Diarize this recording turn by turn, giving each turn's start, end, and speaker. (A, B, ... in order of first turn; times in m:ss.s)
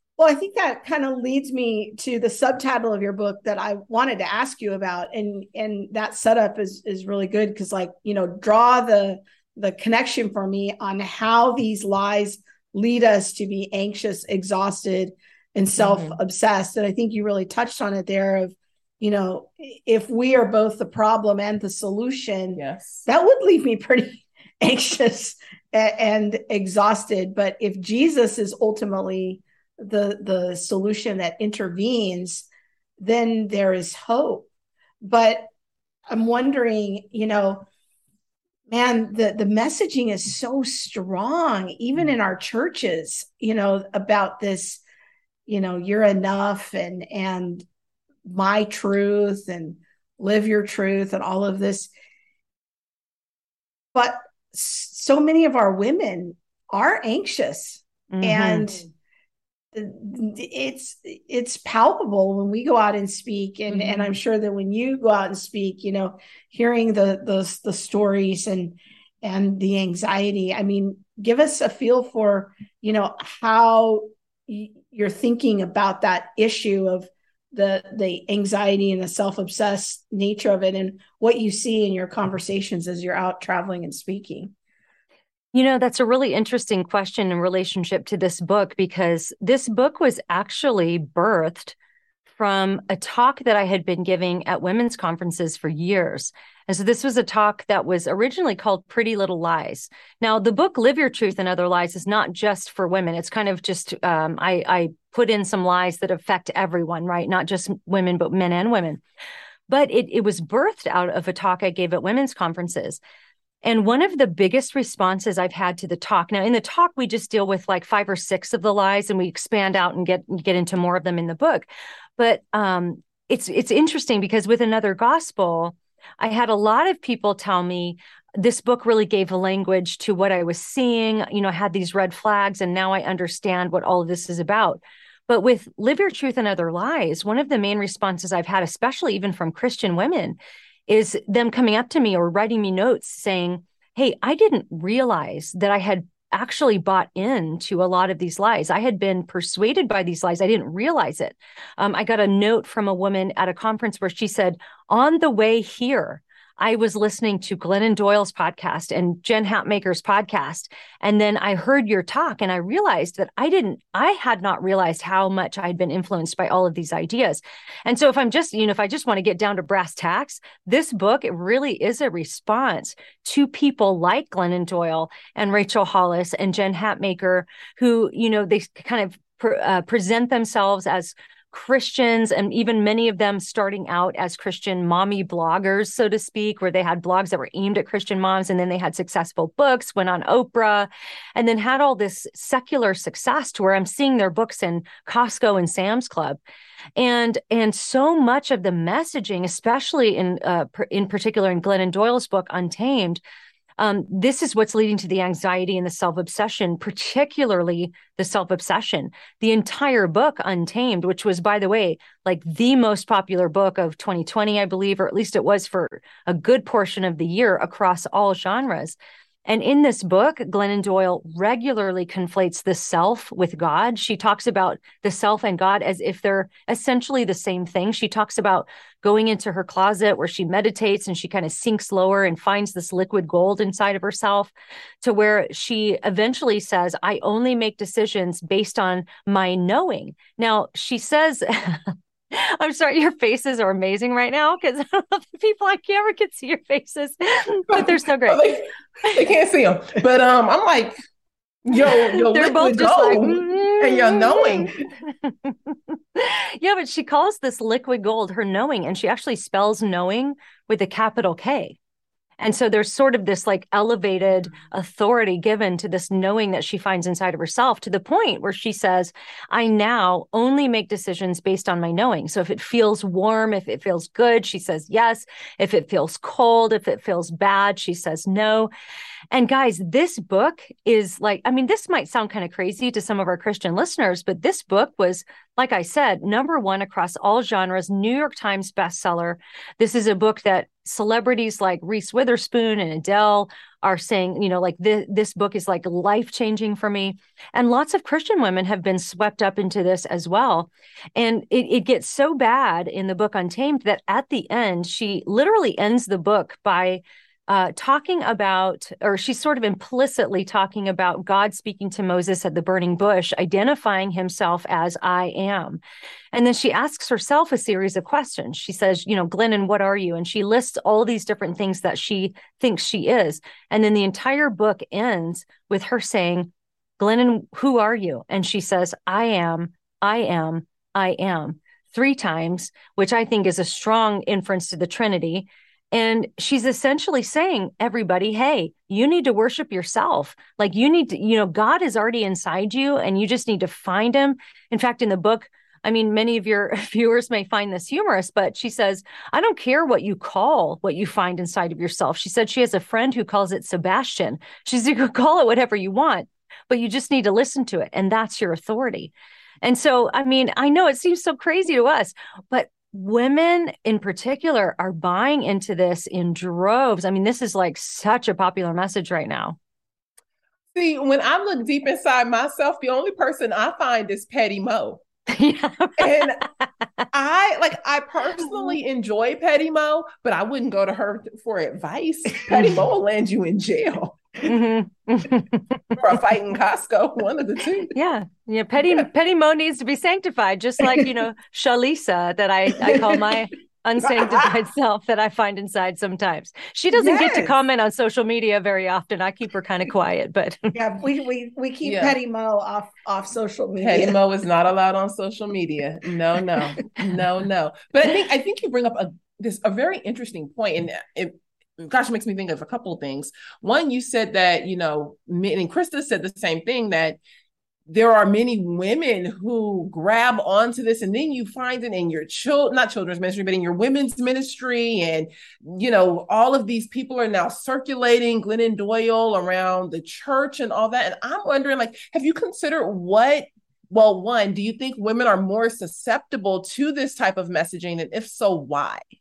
0:00.2-0:32.5 A
0:15.8-0:16.2 B
0:22.6-0:23.0 B
0:33.0-0:34.5 A
0:35.0-0:35.5 A
0:36.1-0:37.6 A
0:38.7-0:44.8 A
0:45.5-0:47.6 A
0:48.2-0:51.9 A
0:53.9-0:58.8 A
0:58.1-0:58.8 C
0:59.7-1:24.5 A
1:25.5-1:31.7 C
1:32.4-1:49.0 C
1:49.7-1:53.0 C
1:53.6-3:16.4 C
3:17.0-3:23.2 C
3:23.8-4:08.4 C
4:07.7-4:10.9 B
4:11.7-4:14.7 B
4:11.8-4:21.8 C
4:22.4-4:38.7 C
4:39.3-5:15.8 C
5:16.3-6:09.6 C
6:10.7-6:15.0 B
6:15.3-6:16.3 C
6:16.0-6:16.4 B
6:17.1-6:24.2 B
6:24.4-6:25.9 C
6:26.0-6:27.9 B
6:27.9-6:40.7 C
6:32.8-6:33.3 A
6:36.9-6:37.5 A
6:40.7-6:44.2 A
6:41.8-6:42.2 B
6:43.8-6:57.2 B
6:57.9-7:19.0 B